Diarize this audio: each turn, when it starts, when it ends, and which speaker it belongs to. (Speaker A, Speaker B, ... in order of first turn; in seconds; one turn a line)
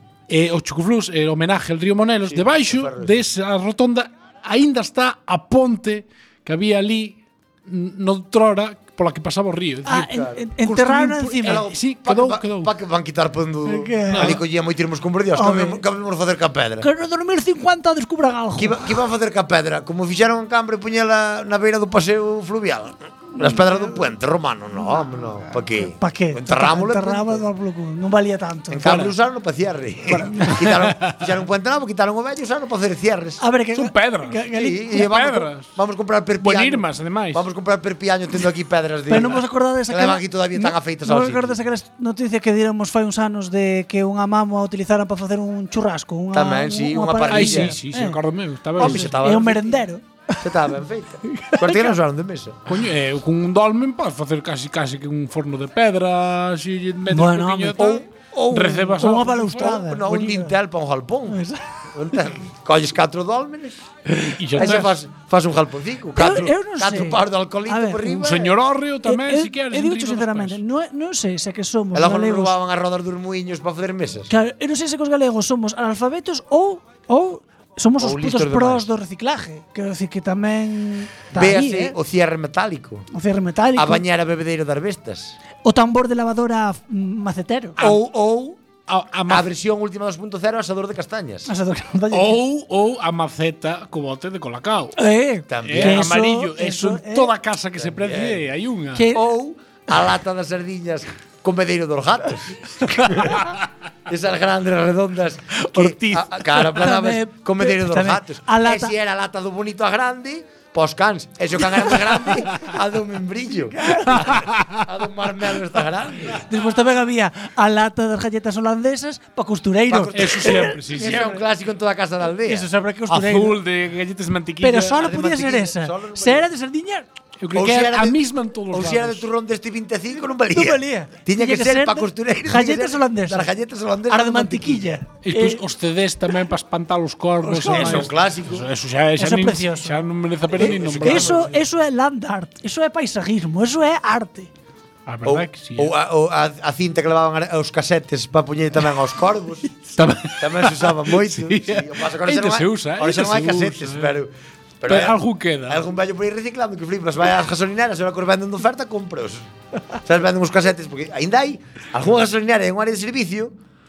Speaker A: 0.3-12.7
Speaker B: 2.3-3.1
Speaker C: 9.9-11.6
Speaker B: 10.0-10.4
Speaker B: 11.4-16.9
Speaker C: 13.7-14.3
Speaker A: 14.1-14.4
Speaker C: 15.4-15.8
Speaker C: 16.8-18.9
Speaker B: 18.6-27.4
Speaker C: 23.4-24.0
Speaker C: 25.9-29.0
Speaker B: 28.7-33.4
Speaker A: 28.8-29.1
Speaker C: 30.1-30.5
Speaker A: 30.5-31.1
Speaker C: 33.4-35.1
Speaker A: 33.8-35.7
Speaker B: 34.5-41.6
Speaker A: 36.4-37.4
Speaker C: 39.1-48.2
Speaker B: 46.3-47.8
Speaker A: 47.3-49.1
Speaker C: 48.8-50.0
Speaker B: 48.8-49.9
Speaker B: 50.4-52.6
Speaker C: 51.3-52.0
Speaker A: 52.6-59.8
Speaker C: 57.1-58.0
Speaker B: 57.8-61.4
Speaker C: 59.0-60.5
Speaker C: 61.3-61.7
Speaker B: 61.9-63.8
Speaker A: 64.3-64.9
Speaker B: 64.6-68.5
Speaker C: 64.6-64.8
Speaker C: 66.2-68.2
Speaker A: 68.1-70.6
Speaker C: 69.1-72.5
Speaker B: 71.9-74.3
Speaker C: 74.3-82.0
Speaker B: 78.0-78.9
Speaker B: 81.3-83.1
Speaker C: 83.1-84.0
Speaker B: 83.8-85.4
Speaker C: 85.6-87.8
Speaker B: 87.8-88.6
Speaker A: 88.9-89.5
Speaker B: 89.3-91.5
Speaker C: 91.5-92.4
Speaker A: 92.1-95.0
Speaker C: 95.0-97.3
Speaker B: 95.5-96.1
Speaker A: 95.6-99.1
Speaker B: 97.8-98.4
Speaker C: 99.0-99.2
Speaker B: 99.1-103.5
Speaker B: 104.1-116.4
Speaker A: 105.6-106.6
Speaker C: 106.8-108.9
Speaker C: 113.8-114.2
Speaker A: 114.2-114.8
Speaker C: 116.5-120.8
Speaker B: 119.9-122.7
Speaker A: 120.1-121.4
Speaker C: 122.5-123.6
Speaker A: 123.1-125.0
Speaker C: 124.6-127.1
Speaker B: 125.0-126.5
Speaker A: 127.4-129.2
Speaker B: 127.5-128.2
Speaker B: 128.7-134.9
Speaker C: 130.5-133.5
Speaker C: 134.1-135.6
Speaker A: 135.2-141.5
Speaker C: 137.4-138.1
Speaker B: 137.6-138.7
Speaker C: 139.2-140.0
Speaker B: 140.5-141.6
Speaker C: 140.6-144.5
Speaker A: 145.1-145.9
Speaker B: 145.2-149.8
Speaker A: 149.9-154.2
Speaker B: 150.4-159.4
Speaker A: 154.8-155.9
Speaker B: 160.0-163.5